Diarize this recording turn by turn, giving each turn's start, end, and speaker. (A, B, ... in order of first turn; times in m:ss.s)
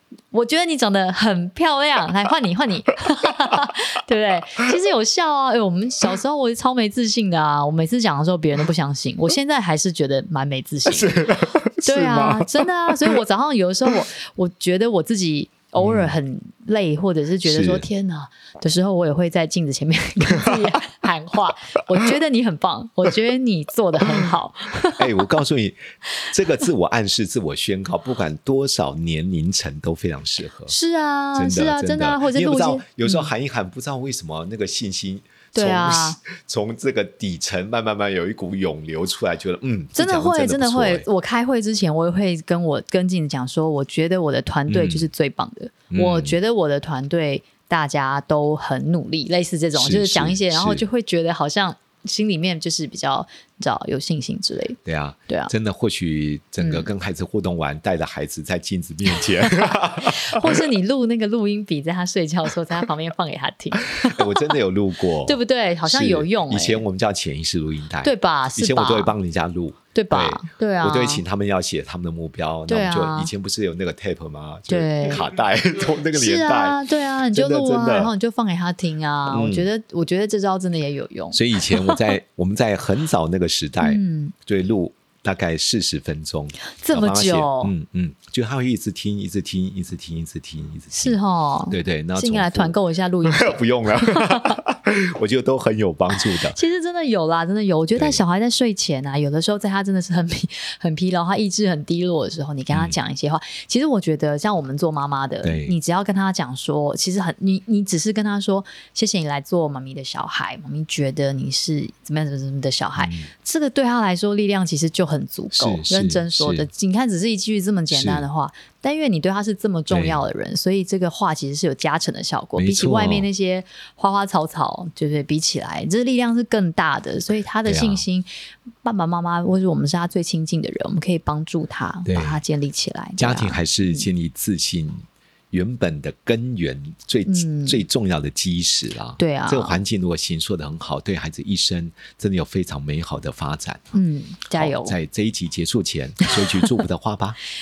0:00.3-0:25.2 A
0:10.9-0:13.1 B
0:15.8-0:16.2 B
0:17.4-0:17.9 B
0:24.9-0:30.8 B
0:30.7-0:33.3 A
0:31.4-0:41.1 B
0:35.5-0:36.2 A
0:40.0-0:55.5 A
0:44.7-0:45.1 B
0:45.9-0:46.4 B
0:49.8-0:50.8 B
0:54.8-1:00.6 B
0:56.6-0:56.9 A
0:59.6-1:04.6 A
1:04.0-1:16.8 B
1:05.2-1:06.8 A
1:08.0-1:09.1 A
1:09.9-1:11.2 A
1:12.7-1:13.3 A
1:14.7-1:15.2 A
1:16.1-1:22.1 A
1:17.3-1:18.1 B
1:19.3-1:19.7 B
1:21.3-1:31.2 B
1:23.8-1:24.4 A
1:26.7-1:27.7 A
1:30.9-1:34.6 A
1:31.7-1:36.6 B
1:36.4-2:08.3 A
1:38.0-1:38.2 B
1:45.4-1:45.8 B
1:53.0-1:53.3 B
1:55.5-1:56.7 B
1:57.9-1:58.3 B
1:59.9-2:00.2 B
2:02.6-2:03.3 B
2:07.6-2:08.0 B
2:08.8-2:14.1 A
2:12.1-2:12.4 B
2:13.2-2:23.8 B
2:17.3-2:17.8 A
2:19.2-2:19.8 A
2:23.9-2:25.0 A
2:24.5-2:27.4 B